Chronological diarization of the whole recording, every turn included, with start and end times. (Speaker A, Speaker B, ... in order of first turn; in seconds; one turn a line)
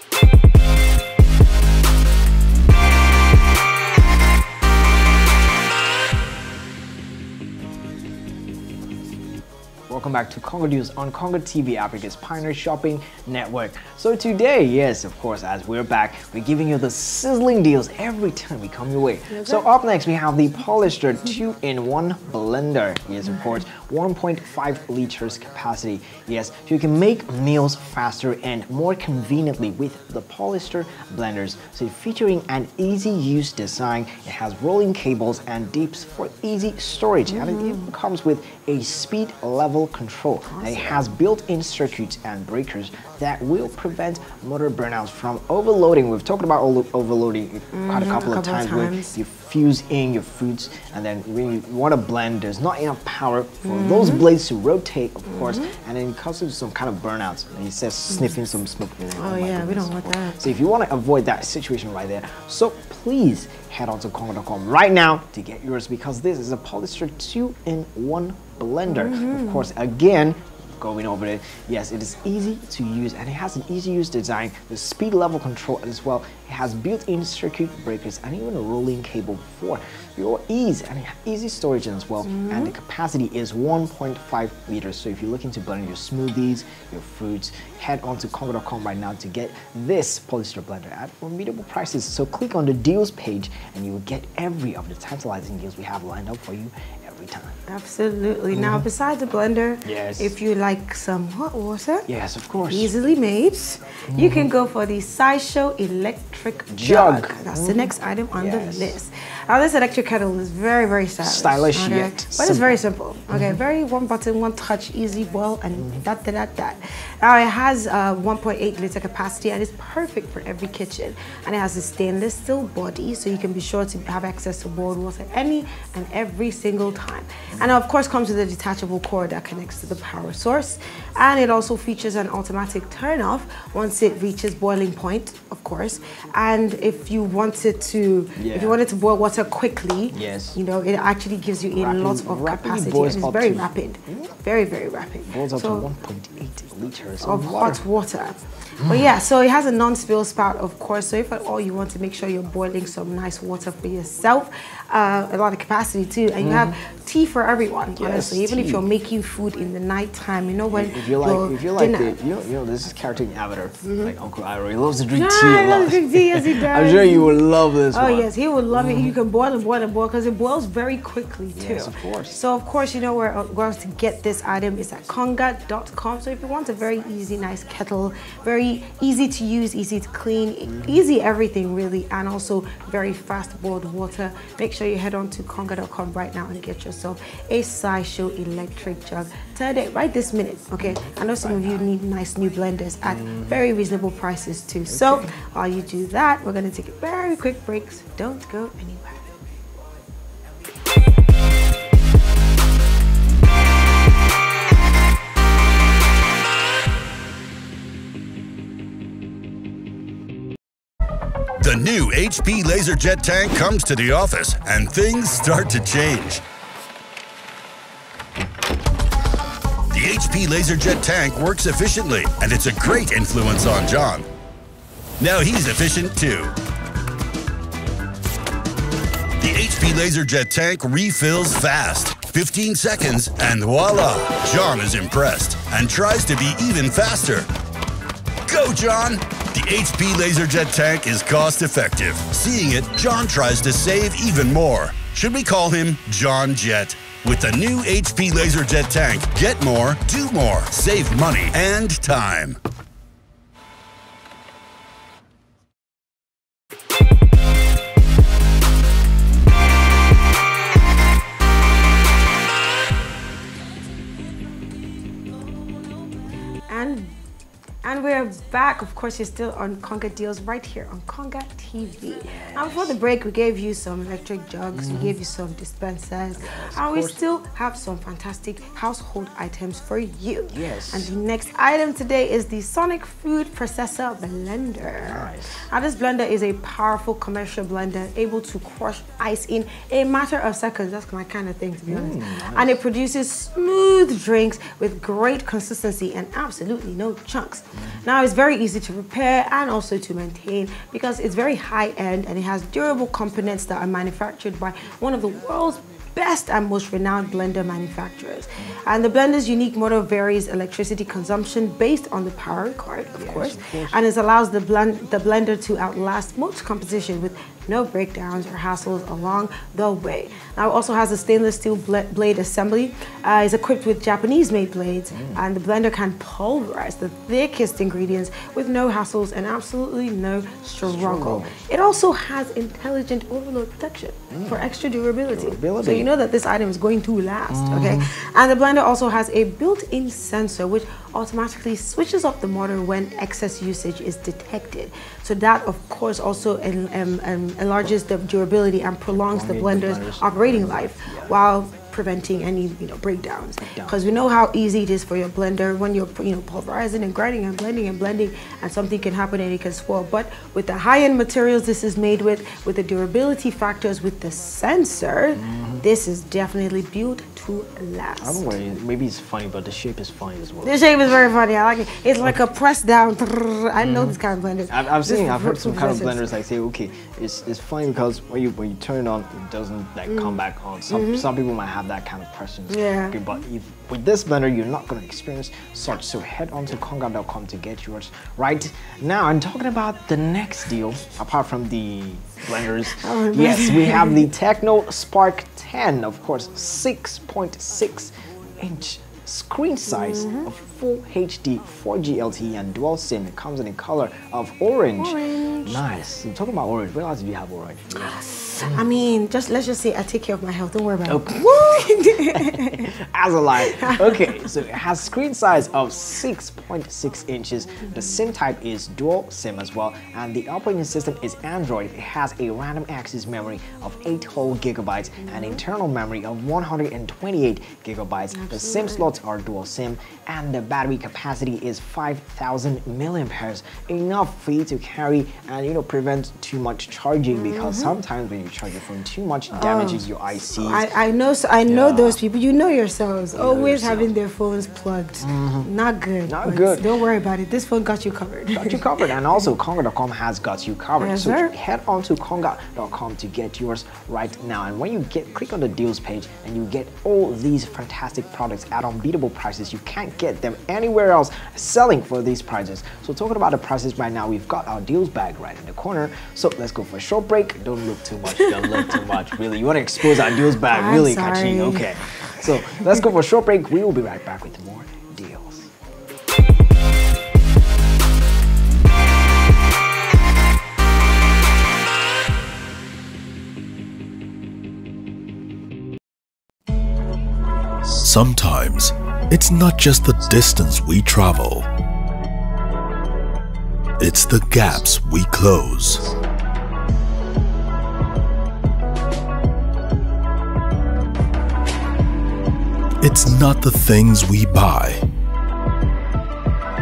Speaker A: 9.9-97.6
Speaker B: 19.3-19.7
Speaker B: 37.3-37.9
Speaker B: 40.5-41.1
Speaker B: 47.7-49.2
Speaker B: 53.6-54.3
Speaker B: 55.3-55.7
Speaker B: 59.2-60.5
Speaker B: 68.9-69.7
Speaker B: 82.3-82.7
Speaker B: 97.7-102.1
Speaker A: 98.5-98.8
Speaker A: 99.8-100.3
Speaker A: 102.1-102.9
Speaker B: 102.7-145.9
Speaker A: 104.1-104.5
Speaker A: 106.7-109.0
Speaker A: 111.2-113.6
Speaker A: 115.8-116.0
Speaker A: 138.3-138.8
Speaker A: 140.1-140.6
Speaker A: 141.7-144.3
Speaker A: 145.2-147.8
Speaker B: 147.2-162.2
Speaker A: 148.8-149.2
Speaker A: 156.4-156.8
Speaker A: 157.9-158.8
Speaker A: 160.7-169.1
Speaker B: 163.8-164.1
Speaker B: 165.1-199.3
Speaker A: 171.6-172.4
Speaker A: 180.7-181.0
Speaker A: 190.8-191.9
Speaker A: 193.1-193.6
Speaker A: 194.9-195.3
Speaker C: 211.6-216.4
Speaker C: 219.9-224.2
Speaker C: 225.2-226.5
Speaker C: 229.4-237.5
Speaker C: 238.5-252.6
Speaker B: 266.7-267.1
Speaker B: 267.8-368.5
Speaker A: 272.2-272.9
Speaker A: 274.7-275.1
Speaker A: 276.4-277.2
Speaker A: 280.5-281.1
Speaker A: 285.0-285.6
Speaker A: 291.9-292.8
Speaker A: 297.8-298.0
Speaker A: 313.1-314.0
Speaker A: 325.1-325.4
Speaker A: 330.8-331.6
Speaker A: 334.3-334.6
Speaker A: 335.3-336.1
Speaker A: 337.5-338.1
Speaker A: 349.1-351.4
Speaker A: 353.6-354.0
Speaker A: 365.3-365.8
Speaker A: 368.2-370.9
Speaker B: 370.6-376.4
Speaker A: 373.8-374.2
Speaker A: 374.7-408.9
Speaker B: 380.1-381.2
Speaker B: 382.7-383.2
Speaker B: 392.9-394.3
Speaker B: 399.9-400.5
Speaker B: 405.0-405.8
Speaker B: 407.9-412.9
Speaker A: 411.1-440.9
Speaker B: 413.6-414.4
Speaker B: 425.2-425.6
Speaker B: 428.3-429.1
Speaker B: 437.3-437.9
Speaker B: 439.5-448.8
Speaker A: 441.7-442.2
Speaker A: 443.3-444.1
Speaker A: 445.2-445.7
Speaker A: 446.2-446.9
Speaker A: 448.5-475.7
Speaker B: 451.0-451.5
Speaker B: 470.4-472.9
Speaker D: 487.9-491.7
Speaker D: 494.0-496.1
Speaker D: 503.0-505.0